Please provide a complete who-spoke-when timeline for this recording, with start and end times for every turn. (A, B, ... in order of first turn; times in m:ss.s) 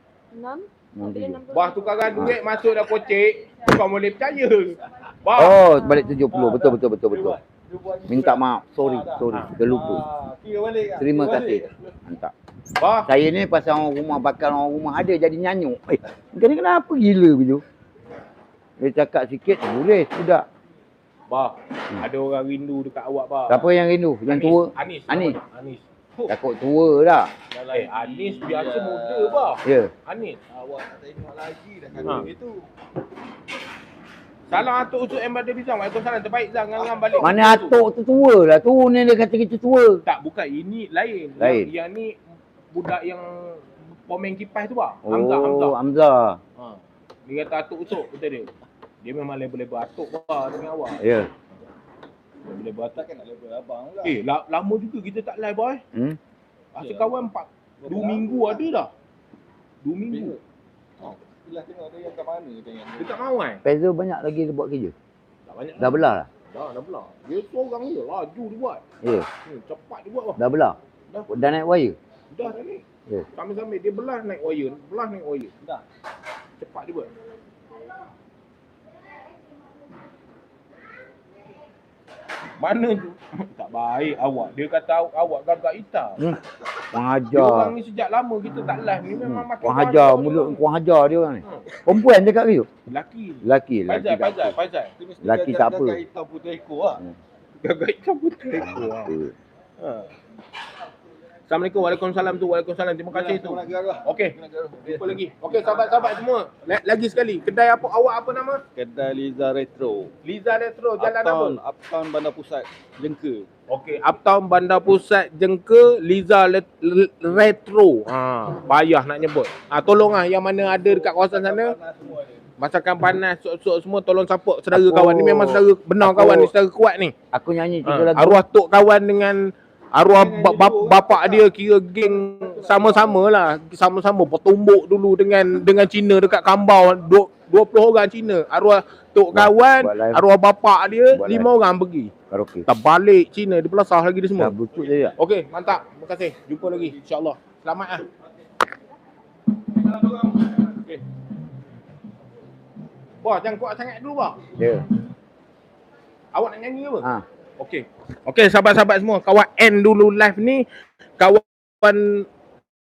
0:00.3-0:02.4 A
0:01.0-0:01.4 B
0:01.5-0:05.6 C
0:02.1-0:02.4 B
0:03.2-0:03.7 A
0:05.4-0:07.4 B
0:05.7-0:06.2 A
0:06.3-0:11.9 D
0:08.1-0:10.0 B
0:11.0-0:12.3 B
0:12.8-0:13.1 C
0:13.0-0:17.6 B
0:18.8-0:20.4 B
0:21.3-0:23.7 C
0:23.5-0:25.4 B
0:24.3-0:25.8 C
0:26.3-0:27.3 B
0:27.5-0:29.6 D
0:27.7-0:30.4 C
0:29.6-0:29.9 B
0:30.5-0:32.6 D
0:34.5-0:37.8 C
0:36.8-0:37.2 D
0:37.2-0:40.0 B
0:40.1-0:42.2 C
0:41.4-0:41.7 B
0:42.7-0:45.8 C
0:45.0-0:46.4 B
0:46.6-0:48.5 C
0:49.0-0:51.0 C
0:51.0-0:51.3 B
0:52.4-0:53.0 C
0:53.0-0:54.2 D
0:54.0-0:55.8 C
0:56.8-0:57.1 D
0:56.8-0:58.9 C
0:57.8-0:58.6 D
0:59.8-1:00.4 C
1:00.1-1:00.4 D
1:01.0-1:03.2 D
1:03.0-1:03.6 C
1:03.6-1:04.9 B
1:05.5-1:08.8 C
1:05.8-1:06.3 B
1:09.0-1:09.3 B
1:09.4-1:10.4 C
1:10.4-1:10.8 B
1:11.3-1:12.0 B
1:12.3-1:12.8 C
1:13.4-1:15.5 C
1:16.6-1:17.1 C
1:22.6-1:26.2 C
1:26.9-1:27.8 B
1:27.3-1:30.6 C
1:29.2-1:32.7 B
1:32.9-1:34.9 C
1:33.4-1:34.6 B
1:35.0-1:37.0 D
1:35.2-1:36.0 B
1:37.6-1:39.1 C
1:38.6-1:39.3 B
1:39.8-1:40.1 C
1:41.5-1:48.6 C
1:43.1-1:46.2 D
1:48.8-1:50.1 D
1:50.2-1:51.6 C
1:51.0-1:53.5 D
1:53.7-2:01.8 C
2:00.7-2:02.5 D
2:02.6-2:07.1 C
2:04.7-2:06.5 B
2:07.3-2:08.4 B
2:07.9-2:22.1 C
2:10.1-2:13.3 D
2:19.3-2:20.2 B
2:21.1-2:21.5 B
2:22.3-2:22.7 B
2:22.7-2:24.6 C
2:24.4-2:25.2 B
2:25.2-2:28.1 C
2:26.7-2:27.0 D
2:29.9-2:30.7 D
2:33.2-2:34.4 C
2:34.6-2:34.8 B
2:36.3-2:37.1 C
2:37.6-2:40.6 C
2:41.2-2:42.3 C